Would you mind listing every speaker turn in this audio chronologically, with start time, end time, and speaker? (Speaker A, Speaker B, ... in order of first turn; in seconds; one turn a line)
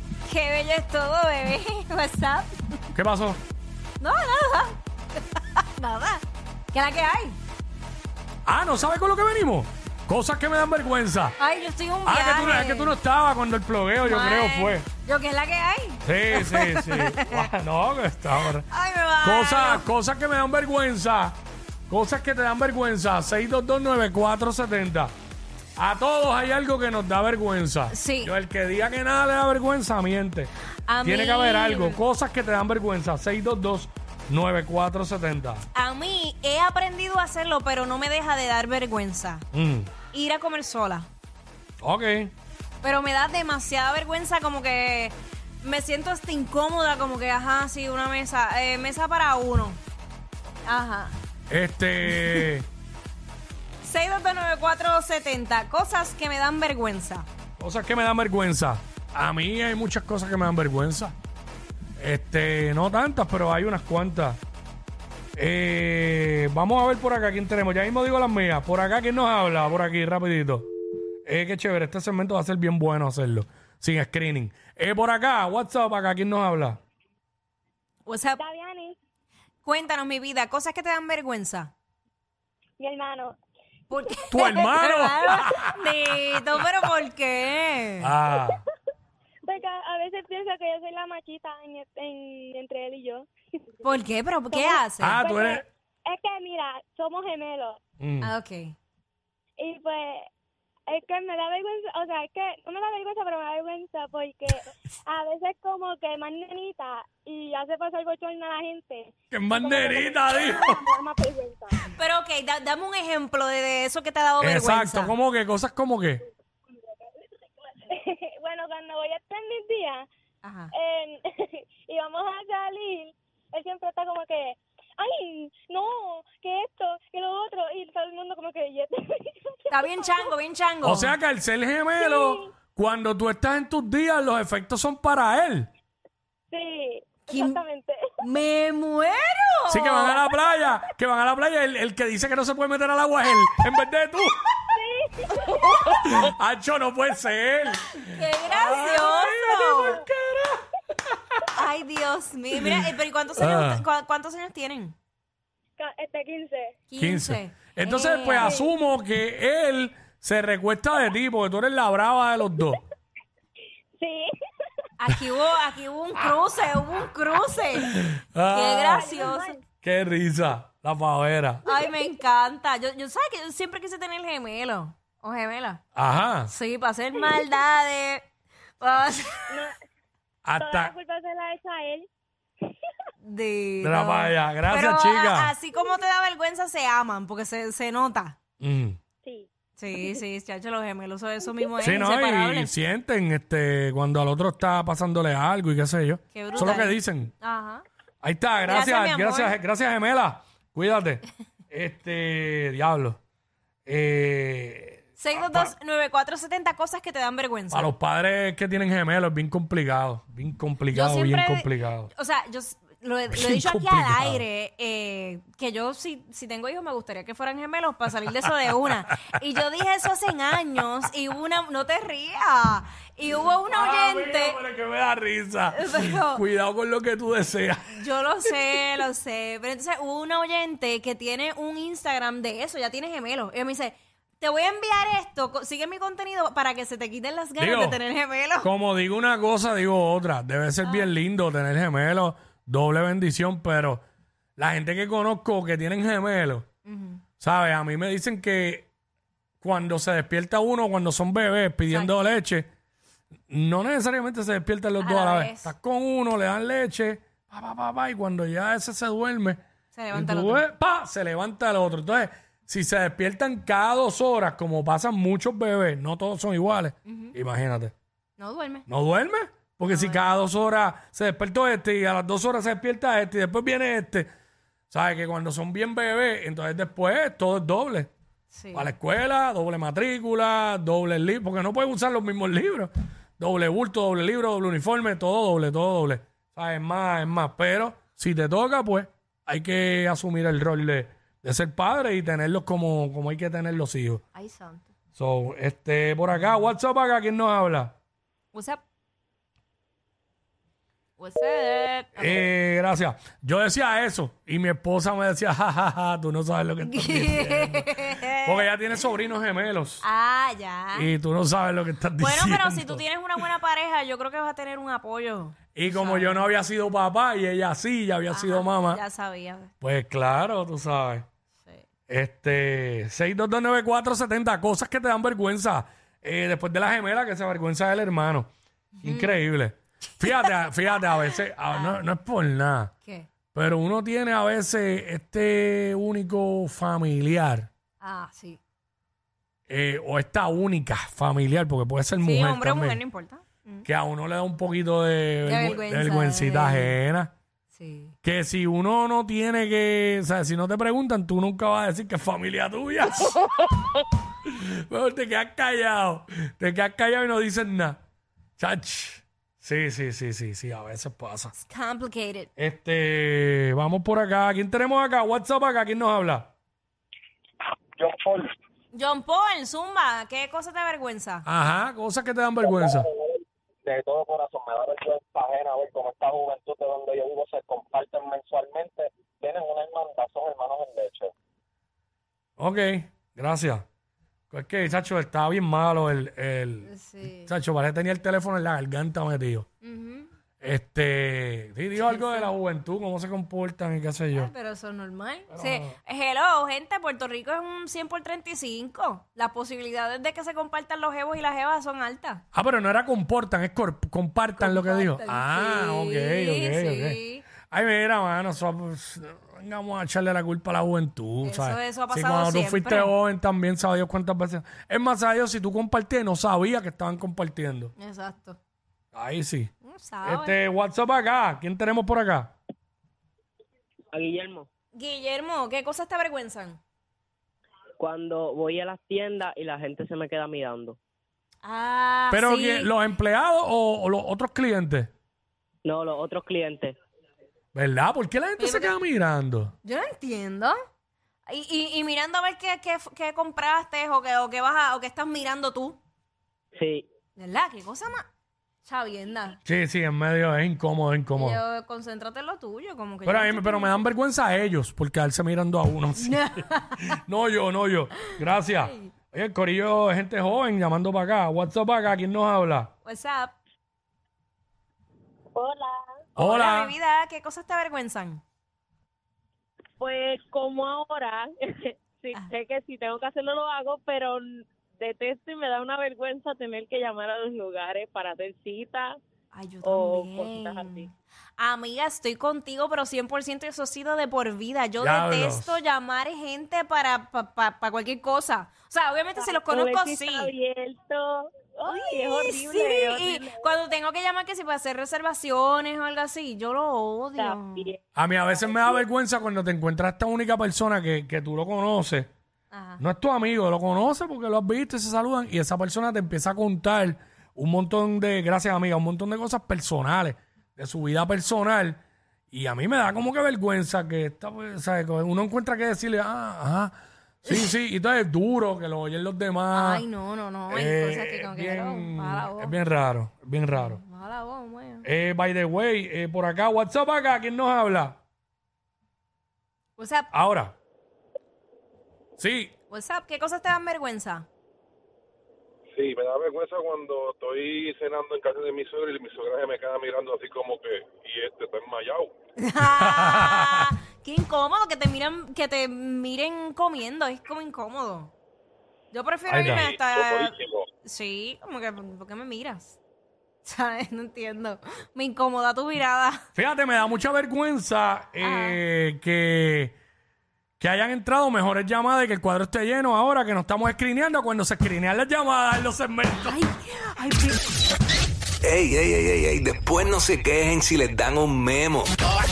Speaker A: 0.2-2.7
Speaker B: 2.9-3.4
Speaker A: 4.0-7.4
Speaker B: 8.4-11.3
Speaker A: 11.4-12.9
Speaker B: 12.0-14.8
Speaker A: 14.0-17.5
Speaker B: 16.0-18.7
Speaker A: 18.5-19.9
Speaker B: 19.2-21.4
Speaker B: 21.9-25.1
Speaker B: 25.8-30.5
Speaker A: 27.9-28.3
Speaker A: 30.9-32.0
Speaker B: 31.0-35.6
Speaker A: 35.7-39.4
Speaker B: 39.5-39.9
Speaker A: 40.1-41.1
Speaker B: 41.8-42.3
Speaker A: 42.8-49.8
Speaker A: 50.6-51.1
Speaker B: 51.5-52.6
Speaker A: 52.2-52.4
Speaker A: 53.8-57.2
Speaker B: 57.6-61.1
Speaker B: 62.0-64.4
Speaker B: 65.3-70.7
Speaker B: 71.2-76.8
Speaker A: 78.0-78.4
Speaker C: 78.4-79.0
Speaker A: 79.6-81.7
Speaker C: 82.8-83.3
Speaker A: 83.9-88.1
Speaker C: 84.1-84.8
Speaker B: 84.3-86.9
Speaker B: 88.0-88.6
Speaker C: 89.5-93.3
Speaker A: 93.8-95.2
Speaker C: 94.5-97.8
Speaker B: 95.0-95.6
Speaker B: 98.0-98.3
Speaker A: 98.2-98.7
Speaker C: 99.6-100.3
Speaker C: 100.9-111.8
Speaker B: 109.3-110.8
Speaker A: 111.8-115.1
Speaker B: 114.4-116.2
Speaker C: 117.6-120.0
Speaker A: 120.4-120.7
Speaker C: 120.7-130.3
Speaker A: 129.7-131.1
Speaker B: 130.8-135.7
Speaker C: 132.0-132.5
Speaker C: 136.5-138.0
Speaker A: 137.3-137.6
Speaker A: 138.2-140.1
Speaker B: 139.7-144.5
Speaker C: 144.7-146.0
Speaker B: 145.7-151.6
Speaker A: 148.1-150.0
Speaker A: 151.5-154.9
Speaker B: 152.5-153.8
Speaker C: 155.8-156.8
Speaker A: 156.9-158.6
Speaker B: 157.0-162.8
Speaker C: 158.4-158.7
Speaker C: 164.0-164.3
Speaker A: 165.0-169.6
Speaker B: 167.8-169.2
Speaker C: 168.9-169.6
Speaker B: 169.8-171.6
Speaker A: 171.7-175.8
Speaker B: 175.9-176.5
Speaker A: 176.5-178.2
Speaker A: 178.8-179.5
Speaker C: 179.5-179.7
Speaker B: 180.4-180.9
Speaker C: 180.6-182.1
Speaker A: 183.2-188.3
Speaker B: 183.8-185.5
Speaker B: 188.6-189.0
Speaker A: 189.8-192.7
Speaker B: 191.8-197.3
Speaker A: 196.3-197.8
Speaker B: 198.2-203.2
Speaker A: 198.7-199.6
Speaker B: 203.8-205.7
Speaker A: 205.2-207.9
Speaker B: 207.7-212.1
Speaker A: 210.9-224.6
Speaker B: 213.3-214.4
Speaker B: 223.7-228.8
Speaker A: 225.7-226.4
Speaker A: 227.9-238.7
Speaker B: 237.6-238.0
Speaker B: 238.6-244.0
Speaker A: 240.8-241.1
Speaker B: 244.6-246.7
Speaker A: 246.8-247.2
Speaker B: 247.4-248.9
Speaker B: 249.6-252.7
Speaker A: 251.9-252.2
Speaker B: 253.5-259.6
Speaker A: 255.0-255.7
Speaker A: 259.9-260.6
Speaker B: 260.1-267.9
Speaker A: 267.1-267.3
Speaker A: 268.4-268.9
Speaker B: 268.9-274.3
Speaker A: 269.9-270.3
Speaker B: 274.9-278.1
Speaker A: 278.5-278.9
Speaker B: 278.7-294.2
Speaker A: 294.3-294.9
Speaker B: 295.1-297.9
Speaker A: 298.5-298.8
Speaker A: 301.2-302.4
Speaker B: 302.1-310.0
Speaker A: 306.9-308.6
Speaker A: 310.0-311.1
Speaker B: 310.9-313.4
Speaker A: 312.2-316.4
Speaker B: 315.7-319.0
Speaker A: 318.3-319.7
Speaker B: 319.8-321.2
Speaker B: 322.1-328.5
Speaker A: 329.0-329.4
Speaker B: 329.0-332.9
Speaker A: 330.1-330.5
Speaker A: 331.7-332.0
Speaker B: 333.5-337.7
Speaker A: 338.0-338.6
Speaker B: 339.7-343.0
Speaker A: 342.2-343.9
Speaker B: 343.8-347.3
Speaker A: 345.4-346.9
Speaker A: 347.7-348.1
Speaker B: 348.2-358.0
Speaker B: 358.6-361.5
Speaker A: 361.5-362.5
Speaker B: 362.6-366.5
Speaker D: 368.0-368.5
Speaker A: 368.9-371.4
Speaker B: 371.4-373.1
Speaker D: 372.7-381.3
Speaker B: 382.6-383.8
Speaker B: 384.5-389.6
Speaker A: 386.9-387.5
Speaker A: 389.8-390.3
Speaker B: 390.6-394.5
Speaker A: 392.0-392.5
Speaker A: 394.3-402.4
Speaker B: 395.5-395.9
Speaker B: 402.5-417.9
Speaker A: 404.6-407.4
Speaker A: 411.4-413.1
Speaker A: 418.0-418.6
Speaker B: 419.1-419.7
Speaker A: 419.8-420.6
Speaker B: 420.2-422.5
Speaker E: 424.1-424.7
Speaker A: 424.9-426.8
Speaker E: 428.0-431.0
Speaker A: 431.6-432.9
Speaker B: 432.3-435.1
Speaker E: 435.8-437.0
Speaker B: 437.7-439.7
Speaker A: 438.6-438.9
Speaker A: 439.8-440.8
Speaker A: 441.4-446.0
Speaker E: 446.8-447.1
Speaker A: 447.4-448.2
Speaker A: 448.8-449.6
Speaker B: 449.6-451.6
Speaker A: 451.4-454.0
Speaker B: 453.2-456.4
Speaker A: 456.2-457.2
Speaker B: 457.1-462.9
Speaker A: 458.8-459.1
Speaker A: 463.0-463.5
Speaker B: 466.4-466.9
Speaker A: 466.4-468.4
Speaker F: 470.0-479.2
Speaker A: 479.5-490.5
Speaker F: 479.8-481.1
Speaker B: 485.0-485.8
Speaker F: 489.3-493.7
Speaker A: 491.9-497.9
Speaker F: 497.4-498.0
Speaker B: 498.1-502.3
Speaker A: 502.7-503.0
Speaker B: 503.0-512.0
Speaker B: 512.5-520.0
Speaker A: 519.7-522.7
Speaker B: 520.7-524.0
Speaker A: 523.7-525.0
Speaker B: 525.0-528.2
Speaker A: 530.0-530.3
Speaker B: 530.3-530.7
Speaker B: 532.4-532.7
Speaker A: 532.9-534.5
Speaker G: 536.0-542.2
Speaker A: 542.6-548.3
Speaker B: 542.8-543.9
Speaker A: 549.1-553.0
Speaker B: 549.5-549.9
Speaker G: 549.6-550.8
Speaker A: 553.6-556.4
Speaker B: 556.5-559.9
Speaker A: 558.4-558.8
Speaker B: 560.8-566.6
Speaker A: 566.4-567.6
Speaker H: 568.6-572.2